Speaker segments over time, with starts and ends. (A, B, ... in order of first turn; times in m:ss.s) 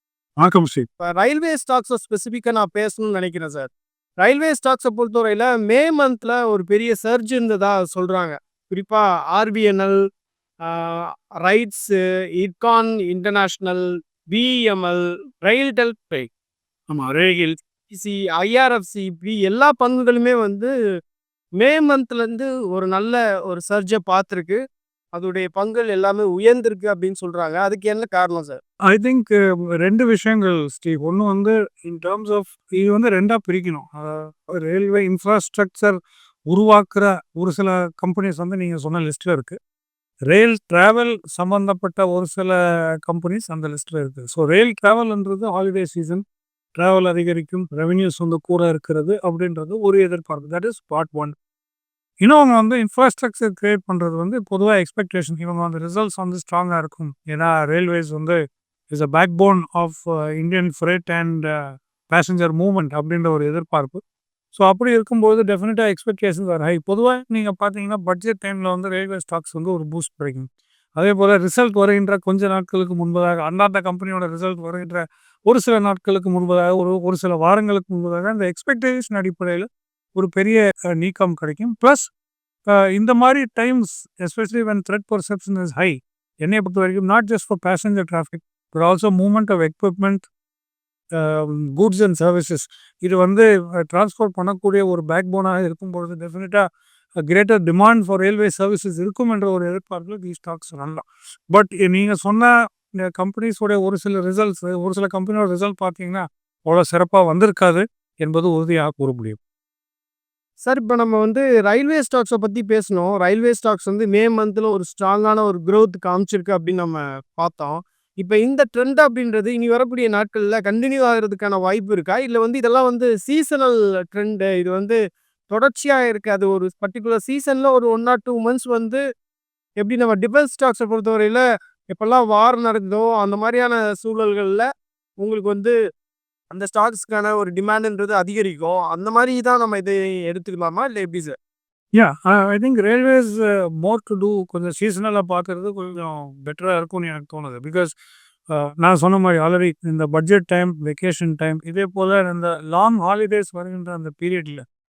0:00.4-0:00.9 A
0:01.0-0:10.0 B
0:10.7-0:16.3 B
0:16.9-0:17.5 A
0:17.9-0:20.7 B
0:21.6-0:24.6 B
0:25.2-0:28.6 B
0:28.8-0:36.0 A
0:36.5-0:39.6 A
0:40.3-0:46.2 A
0:46.8-0:51.3 A
0:52.2-0:58.4 A
0:58.9-1:04.0 A
1:04.5-1:22.1 A
1:22.7-1:30.3 A
1:31.1-1:36.6 A
1:37.2-1:49.4 A
1:50.6-2:05.0 B
2:05.5-2:09.0 B
2:09.8-2:14.7 B
2:15.2-2:15.7 B
2:16.5-2:21.4 B
2:21.9-2:27.9 A
2:28.5-2:34.6 A